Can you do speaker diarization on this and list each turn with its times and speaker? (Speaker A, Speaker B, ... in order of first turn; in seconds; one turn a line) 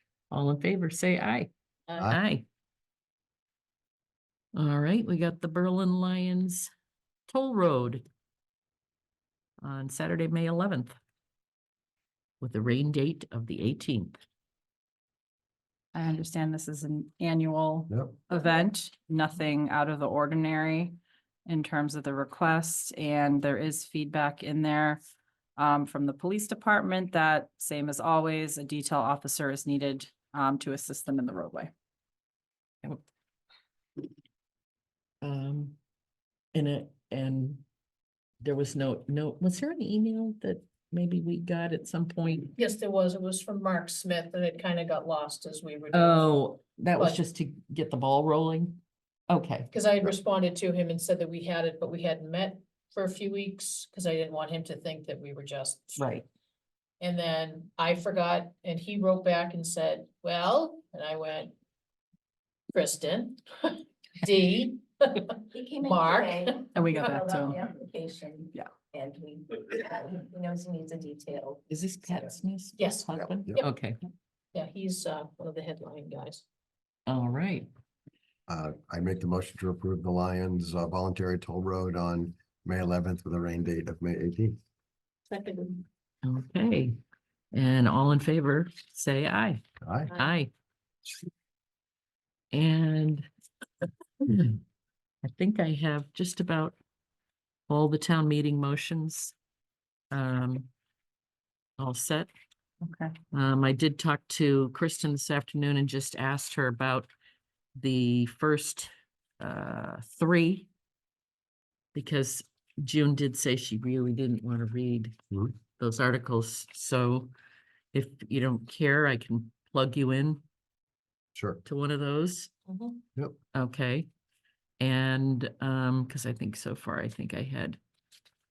Speaker A: 0.3-1.5
Speaker A: 2.0-2.5
Speaker A: 4.5-6.7
Speaker A: 7.3-8.1
Speaker A: 9.6-10.9
Speaker A: 12.4-14.2
Speaker B: 15.9-25.0
Speaker C: 17.9-18.2
Speaker B: 25.6-31.7
Speaker A: 35.2-35.8
Speaker A: 36.5-37.6
Speaker A: 38.4-42.5
Speaker D: 42.5-46.3
Speaker A: 45.9-49.7
Speaker D: 49.7-56.1
Speaker A: 56.0-56.3
Speaker D: 57.0-61.5
Speaker D: 62.7-67.0
Speaker E: 65.5-71.6
Speaker B: 66.7-67.6
Speaker A: 71.7-74.0
Speaker D: 72.8-73.7
Speaker C: 73.2-73.6
Speaker D: 74.5-76.4
Speaker A: 77.1-77.7
Speaker C: 78.5-84.6
Speaker E: 85.3-85.8
Speaker A: 86.2-87.0
Speaker A: 87.5-90.5
Speaker C: 89.8-90.2
Speaker A: 92.5-93.3
Speaker A: 94.2-94.6
Speaker A: 95.2-96.8
Speaker A: 97.7-99.3
Speaker A: 100.1-100.7
Speaker A: 101.8-102.3
Speaker B: 102.8-103.2
Speaker A: 103.3-107.1
Speaker A: 107.8-110.7
Speaker A: 111.9-115.2
Speaker A: 115.8-117.3
Speaker A: 117.9-120.4
Speaker C: 121.3-121.6
Speaker A: 121.7-122.7
Speaker A: 123.5-124.1
Speaker A: 124.8-127.8